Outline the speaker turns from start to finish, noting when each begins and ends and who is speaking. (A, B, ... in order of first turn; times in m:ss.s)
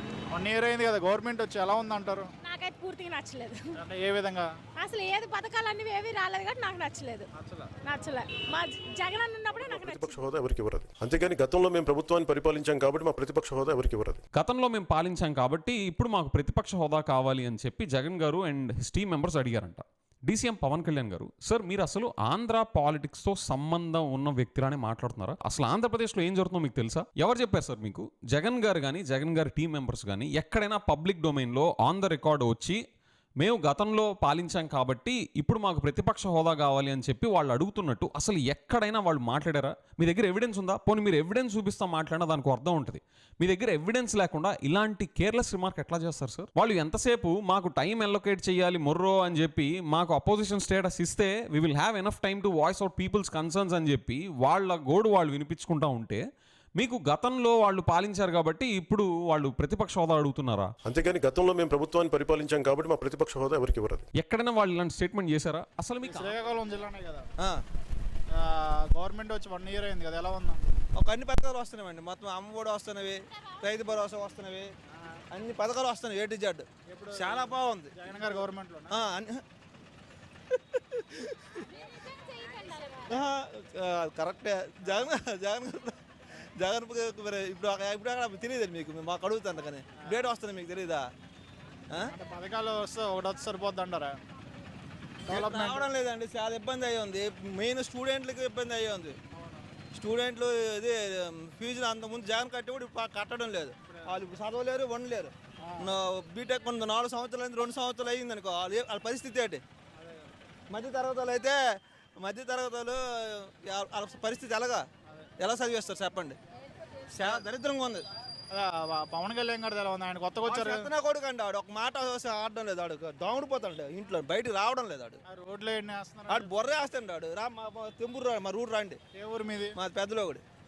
0:00.3-0:02.3 A
0:02.4-0:03.8 B
0:03.8-0:04.5 A
0:04.8-0:07.3 B
0:07.8-0:10.3 B
0:09.5-0:14.2 C
0:14.3-0:32.8 D
0:33.4-0:56.2 D
0:56.8-1:00.7 D
1:00.8-1:04.0 C
1:04.2-1:06.4 D
1:06.0-1:07.2 A
1:08.3-1:10.6 A
1:11.0-1:14.7 E
1:15.3-1:19.4 E
1:16.9-1:18.9 A
1:20.5-1:21.8 E
1:22.9-1:26.0 E
1:26.6-1:31.0 E
1:32.0-1:34.2 A
1:35.3-1:39.2 E
1:35.3-1:35.8 A
1:39.9-1:49.6 E
1:45.6-1:45.9 A
1:50.7-1:51.6 E
1:52.2-1:54.8 E
1:55.4-1:56.4 E
1:57.1-1:58.0 E
1:58.5-2:00.9 A
2:00.4-2:05.2 E
2:05.3-2:06.7 A
2:06.3-2:09.0 E
2:09.1-2:09.7 A
2:09.7-2:10.4 E